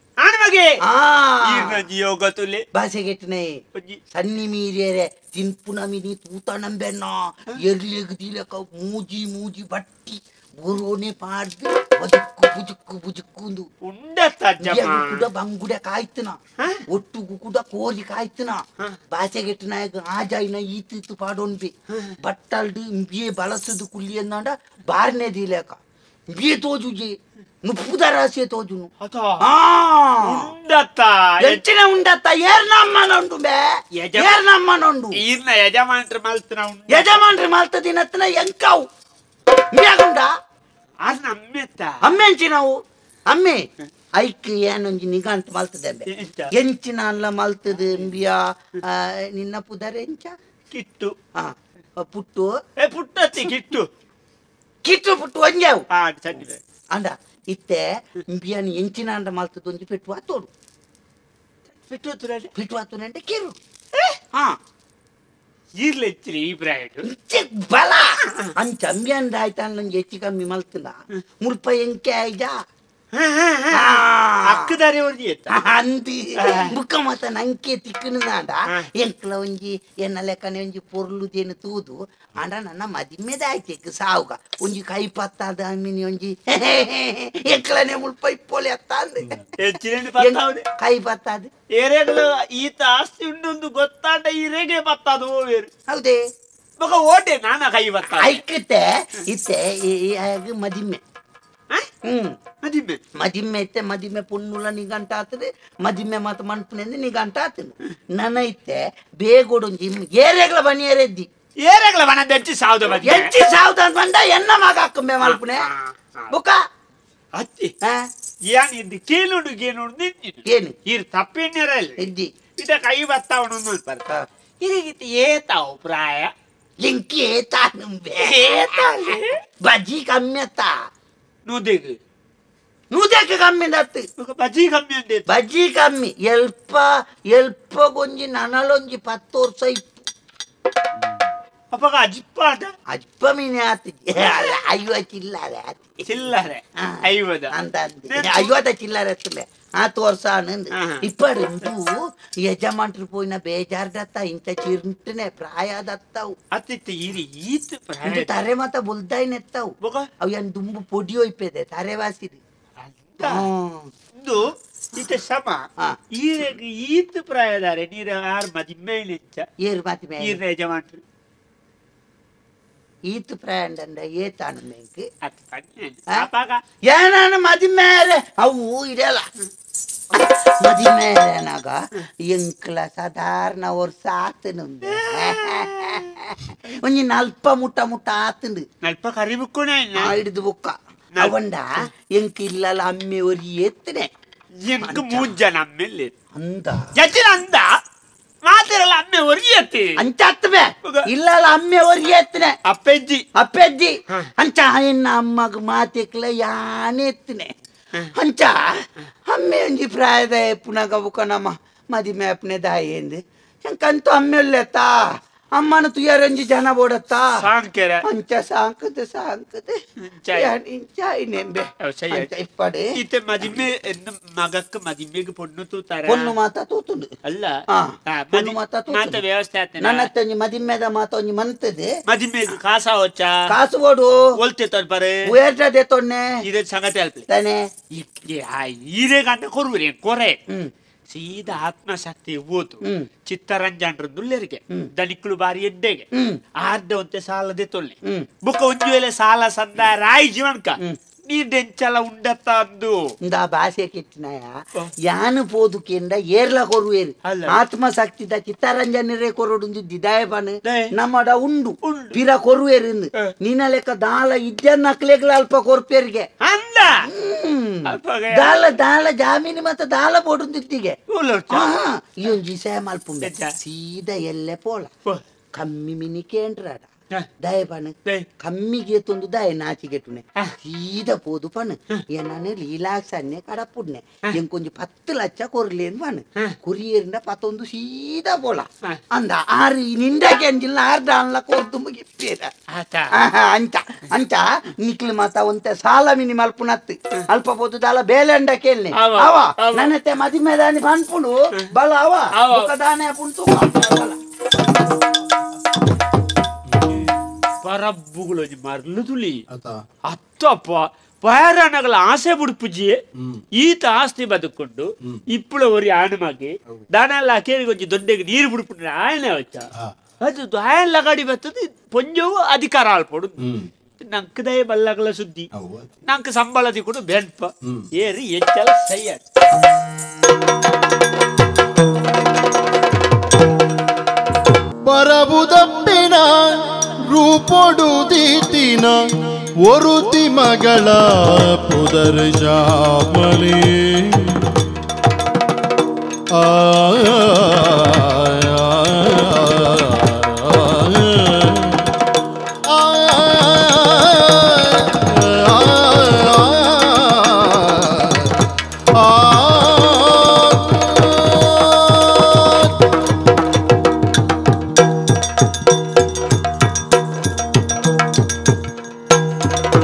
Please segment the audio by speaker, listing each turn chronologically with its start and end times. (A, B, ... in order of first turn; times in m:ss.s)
0:00.2-0:00.8 A
0:00.8-0:01.8 B
0:01.4-0:02.6 A
0:02.7-0:03.6 B
0:03.7-0:04.0 A
0:04.1-0:13.7 B
0:13.8-0:15.2 A
0:14.6-0:25.8 B
0:16.6-0:16.8 A
0:26.3-0:28.9 B
0:29.0-0:29.4 A
0:29.4-0:30.5 B
0:30.2-0:31.6 A
0:31.4-0:33.6 B
0:34.0-0:34.4 A
0:34.2-0:35.2 B
0:35.2-0:37.2 A
0:36.9-0:38.8 B
0:39.7-0:40.3 B
0:41.0-0:42.0 A
0:42.0-0:43.6 B
0:44.2-0:50.3 B
0:46.1-0:46.5 A
0:50.7-0:51.1 A
0:51.4-0:52.6 B
0:52.8-0:53.9 A
0:54.8-0:55.8 B
0:55.9-0:56.6 A
0:56.9-1:00.5 B
1:01.7-1:02.5 A
1:02.6-1:03.6 B
1:05.8-1:07.0 A
1:07.0-1:12.6 B
1:13.1-1:15.6 A
1:13.7-1:14.7 B
1:15.5-1:29.4 B
1:16.4-1:16.7 A
1:29.6-1:30.6 A
1:30.2-1:31.5 B
1:31.8-1:35.7 A
1:35.9-1:36.2 B
1:36.8-1:38.4 A
1:38.1-1:41.0 B
1:42.0-1:42.4 B
1:42.6-1:43.0 A
1:43.2-1:51.3 B
1:51.6-1:53.3 A
1:52.9-1:55.7 B
1:55.2-1:56.3 A
1:56.3-1:56.6 B
1:57.4-1:57.7 A
1:58.5-2:02.0 A
2:00.4-2:00.8 B
2:02.0-2:02.3 B
2:02.6-2:04.0 A
2:04.6-2:06.3 A
2:06.8-2:10.7 B
2:08.2-2:09.4 A
2:11.5-2:12.0 A
2:12.9-2:14.1 B
2:14.2-2:15.3 A
2:15.3-2:20.1 B
2:21.7-2:22.7 A
2:22.9-2:26.0 B
2:26.0-2:27.5 A
2:27.5-2:31.9 B
2:28.1-2:28.5 A
2:30.7-2:31.0 A
2:32.4-2:36.3 B
2:36.5-2:38.3 A
2:38.0-2:42.4 B
2:39.8-2:40.1 A
2:42.8-2:43.4 A
2:43.2-2:43.9 B
2:44.2-2:45.6 A
2:46.1-2:49.4 A
2:49.6-2:50.4 B
2:50.2-2:51.0 A
2:53.1-2:55.1 B
2:55.2-2:56.6 A
2:56.8-2:59.3 B
3:00.1-3:08.6 B
3:04.9-3:06.0 A
3:08.8-3:10.1 A
3:10.0-3:14.1 B
3:14.6-3:16.1 A
3:14.8-3:15.3 B
3:16.3-3:16.9 B
3:17.0-3:17.7 A
3:18.4-3:20.0 A
3:20.0-3:22.6 B
3:22.7-3:23.2 A
3:23.4-3:27.5 B
3:28.2-3:37.4 B
3:37.4-3:38.0 A
3:38.0-3:39.8 B
3:40.0-3:40.5 A
3:40.3-3:42.9 B
3:41.8-3:42.3 A
3:43.0-3:46.3 A
3:46.1-3:47.1 B
3:47.2-3:47.5 A
3:47.7-3:49.2 B
3:48.1-3:50.1 A
3:49.8-3:51.9 B
3:52.1-3:53.4 A
3:53.5-3:54.2 B
3:54.4-3:55.3 A
3:55.3-3:56.3 B
3:56.4-3:57.2 A
3:57.3-3:58.0 B
3:58.0-4:00.4 A
4:01.1-4:06.0 A
4:02.8-4:03.1 B
4:06.1-4:06.4 B
4:06.6-4:13.0 A
4:13.2-4:26.3 B
4:17.3-4:17.5 A
4:21.8-4:22.2 A
4:26.4-4:27.1 A
4:26.9-4:31.0 B
4:27.9-4:28.8 A
4:31.1-4:31.8 A
4:31.5-4:34.9 B
4:33.2-4:33.5 A
4:35.5-4:36.9 B
4:37.4-4:52.5 B
4:52.7-4:53.1 A
4:53.1-5:04.2 B
4:58.9-4:59.9 A
5:02.4-5:02.7 A
5:06.7-5:07.0 C
5:07.6-5:09.4 A
5:09.5-5:09.8 C
5:10.1-5:13.0 A
5:13.2-5:13.4 C
5:13.6-5:19.7 A
5:20.2-5:23.4 A
5:23.4-5:23.7 C
5:24.1-5:25.4 A
5:25.5-5:25.9 C
5:26.1-5:29.2 A
5:34.8-5:36.5 C
5:37.1-5:39.0 C
5:39.7-5:44.4 C
5:46.4-5:51.9 C
5:52.7-5:58.3 C
5:59.0-6:02.7 C